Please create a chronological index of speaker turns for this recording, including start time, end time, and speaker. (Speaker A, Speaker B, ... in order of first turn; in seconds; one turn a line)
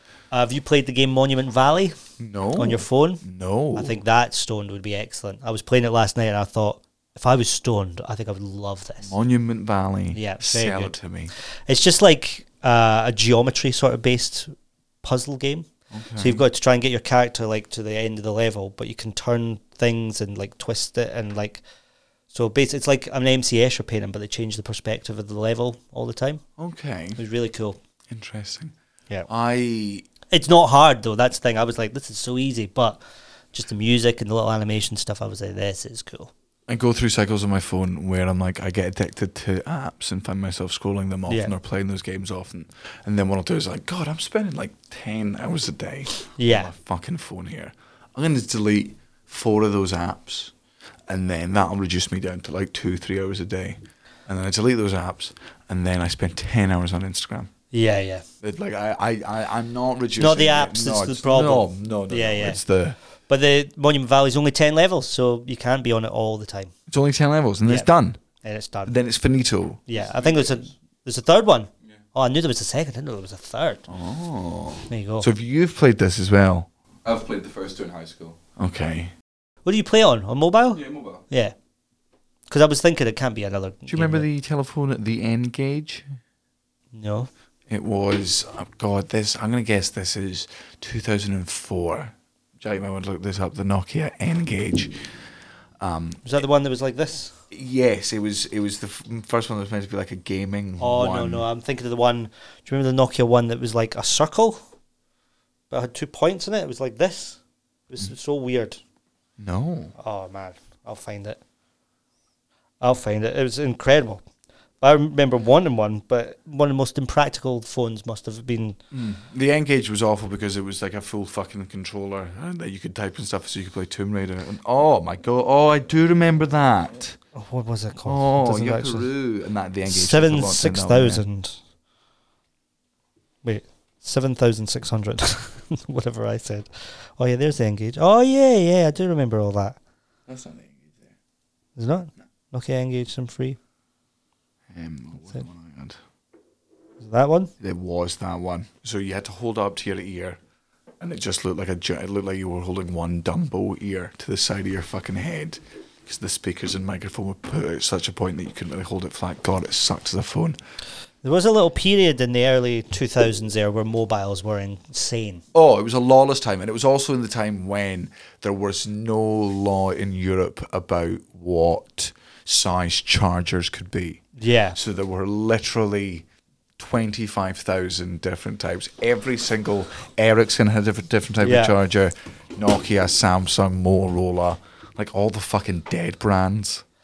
Speaker A: 0.3-2.0
Speaker B: 2.2-4.0
Speaker A: 2.6-3.2
Speaker A: 3.8-9.1
Speaker B: 9.0-11.3
Speaker A: 10.1-11.0
Speaker A: 11.7-21.6
Speaker B: 15.9-16.4
Speaker A: 22.3-26.4
Speaker B: 26.6-27.2
Speaker A: 27.2-27.8
Speaker B: 28.1-28.8
Speaker B: 29.3-30.1
Speaker A: 30.3-33.0
Speaker A: 33.5-36.3
Speaker B: 36.7-50.5
Speaker A: 46.4-46.7
Speaker B: 51.1-57.5
Speaker A: 57.7-58.2
Speaker B: 58.4-63.0
Speaker A: 60.2-62.6
Speaker A: 63.3-66.7
Speaker B: 66.9-68.2
Speaker A: 68.4-69.0
Speaker B: 68.9-69.8
Speaker A: 69.9-73.9
Speaker C: 70.0-70.7
Speaker B: 73.9-76.7
Speaker A: 74.9-75.3
Speaker C: 77.0-78.4
Speaker B: 78.6-79.1
Speaker A: 79.7-81.5
Speaker C: 80.7-81.2
Speaker A: 82.5-84.3
Speaker B: 83.9-86.1
Speaker A: 86.9-87.3
Speaker B: 87.7-94.9
Speaker B: 95.8-96.3
Speaker A: 96.2-97.3
Speaker B: 97.5-101.5
Speaker A: 100.8-104.6
Speaker A: 105.7-107.4
Speaker A: 107.9-108.8
Speaker B: 109.4-109.9
Speaker A: 110.0-111.4
Speaker A: 112.8-114.2
Speaker A: 114.8-118.8
Speaker B: 118.9-127.2
Speaker A: 127.3-129.1
Speaker B: 128.1-131.2
Speaker A: 129.9-131.6
Speaker A: 133.4-139.8
Speaker B: 140.3-140.9
Speaker A: 141.8-143.6
Speaker B: 144.7-146.0
Speaker A: 147.0-147.5
Speaker B: 147.6-150.4
Speaker B: 151.0-160.6
Speaker A: 161.2-165.4
Speaker B: 165.5-174.2
Speaker A: 174.4-174.8
Speaker B: 174.8-176.3
Speaker B: 176.8-186.8
Speaker A: 181.4-181.7